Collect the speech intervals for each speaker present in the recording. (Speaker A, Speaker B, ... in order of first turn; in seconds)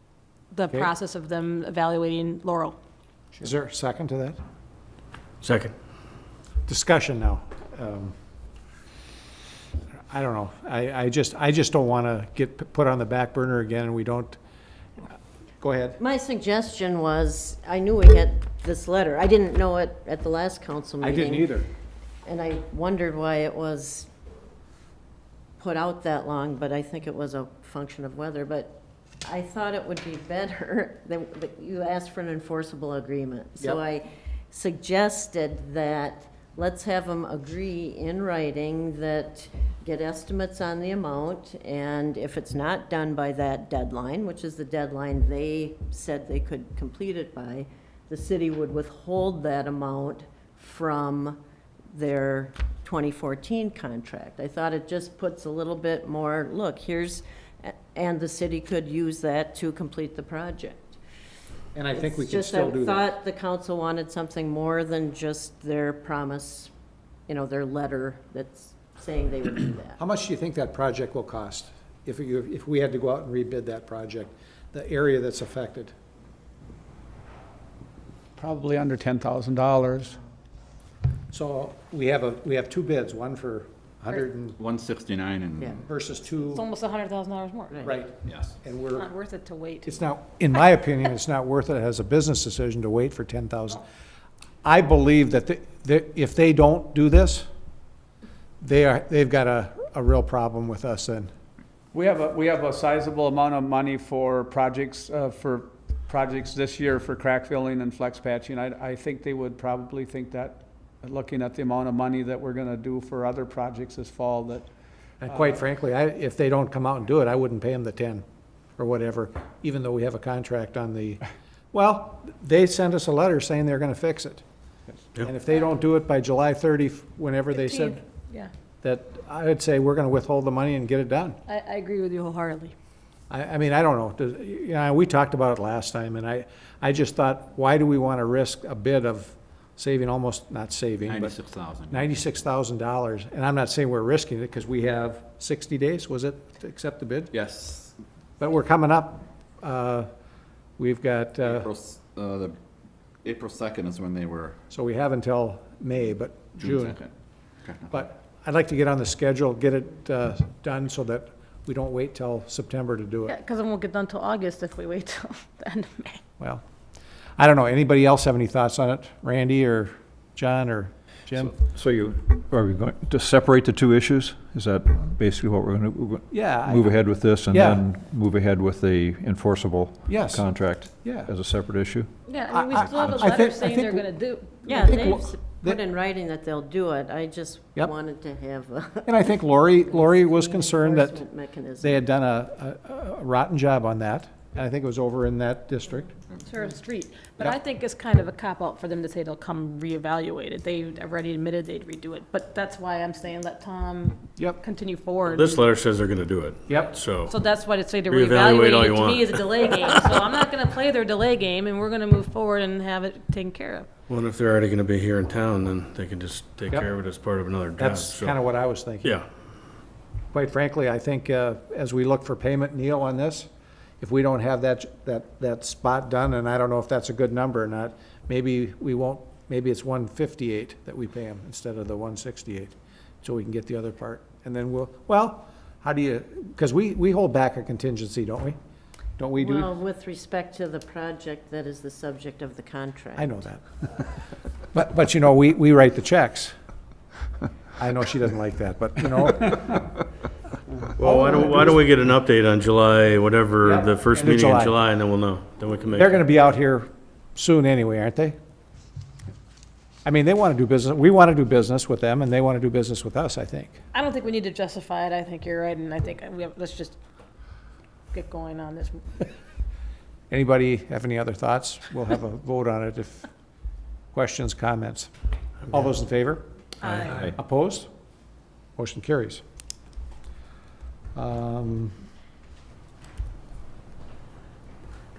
Speaker A: 0.5-2.8, 86.4-87.8, 88.9-90.0, 127.5-128.5, 131.4-132.7, 163.2-166.2, 182.3-185.2, 196.4-205.6, 207.3-213.9, 263.9-267.0, 268.1-269.2
Speaker B: 3.4-4.4, 6.7-8.1, 10.1-14.4, 15.6-16.0, 21.0-21.7, 61.7-63.1, 70.0-75.9, 81.3-84.6, 85.8-86.6, 87.8-89.1, 89.8-93.8, 94.6-97.5, 98.6-101.3, 115.2-118.2, 118.8-121.2, 121.7-124.4, 125.2-128.0, 128.8-131.4, 133.3-147.4, 148.4-150.1, 150.8-151.7, 154.7-157.0, 157.9-163.3, 167.4-171.5, 176.3-176.9, 177.5-177.8, 180.1-181.3, 182.5-184.1, 184.8-185.8, 189.1-191.2, 191.8-196.2, 206.7-206.9, 217.8-219.2, 220.3-223.5, 224.0-238.6, 239.2-239.7, 243.2-244.1, 244.7-246.5, 247.8-249.9, 251.0-251.8, 253.6-254.8, 255.9-258.4, 260.0-263.8, 270.3-273.3, 274.1-275.1, 275.7-277.9, 278.8-279.4, 281.1-282.0
Speaker C: 5.4-5.7, 205.3-207.3, 208.1-209.4, 214.1-218.3, 251.0-256.2
Speaker D: 16.0-21.6, 22.2-24.1, 25.6-51.4, 51.9-61.0, 61.9-66.7, 67.3-70.0, 87.7-88.0, 184.7-192.0, 239.4-243.4
Speaker E: 78.4-80.2, 101.9-114.7
Speaker F: 84.6-85.8, 88.2-88.5, 141.1-142.1, 147.3-147.9, 151.5-152.6, 153.2-154.6, 156.6-157.1, 157.6-157.9
Speaker G: 171.3-182.1